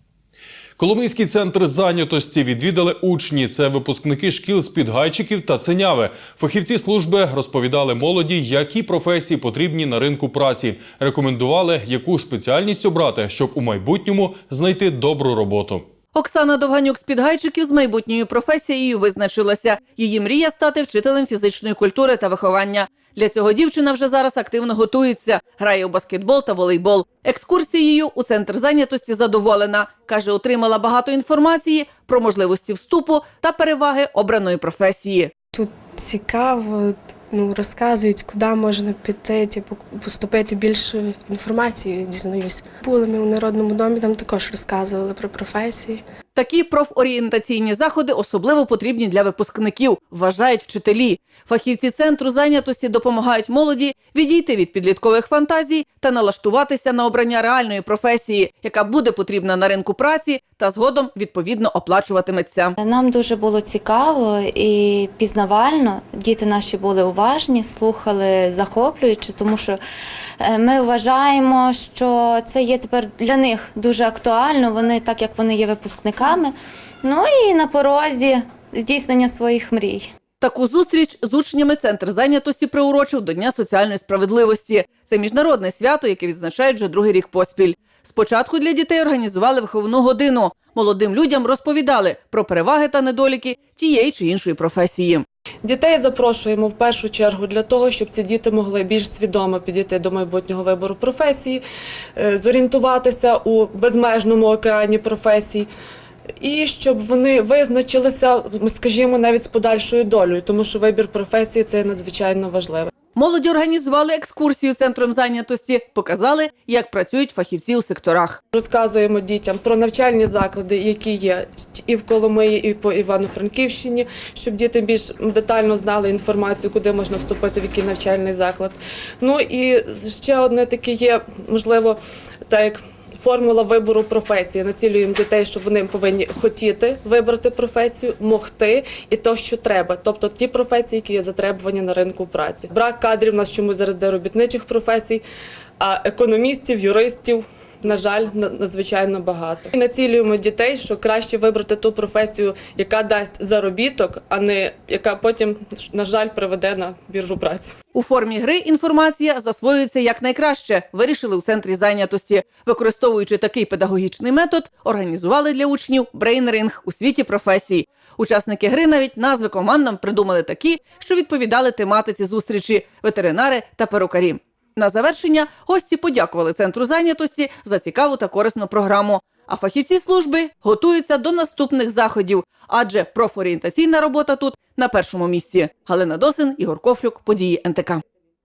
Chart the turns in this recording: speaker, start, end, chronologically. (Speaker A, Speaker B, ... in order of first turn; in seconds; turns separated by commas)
Speaker A: 0.8-15.9, Speaker B: 16.1-35.3, Speaker C: 35.6-46.0, Speaker B: 46.4-62.8, Speaker D: 62.8-69.8, Speaker D: 70.4-80.1, Speaker B: 80.4-95.2, Speaker E: 95.6-101.6, Speaker E: 102.2-105.7, Speaker E: 106.4-112.9, Speaker B: 113.1-118.4, Speaker E: 118.5-145.2, Speaker E: 145.8-157.7, Speaker B: 157.9-188.0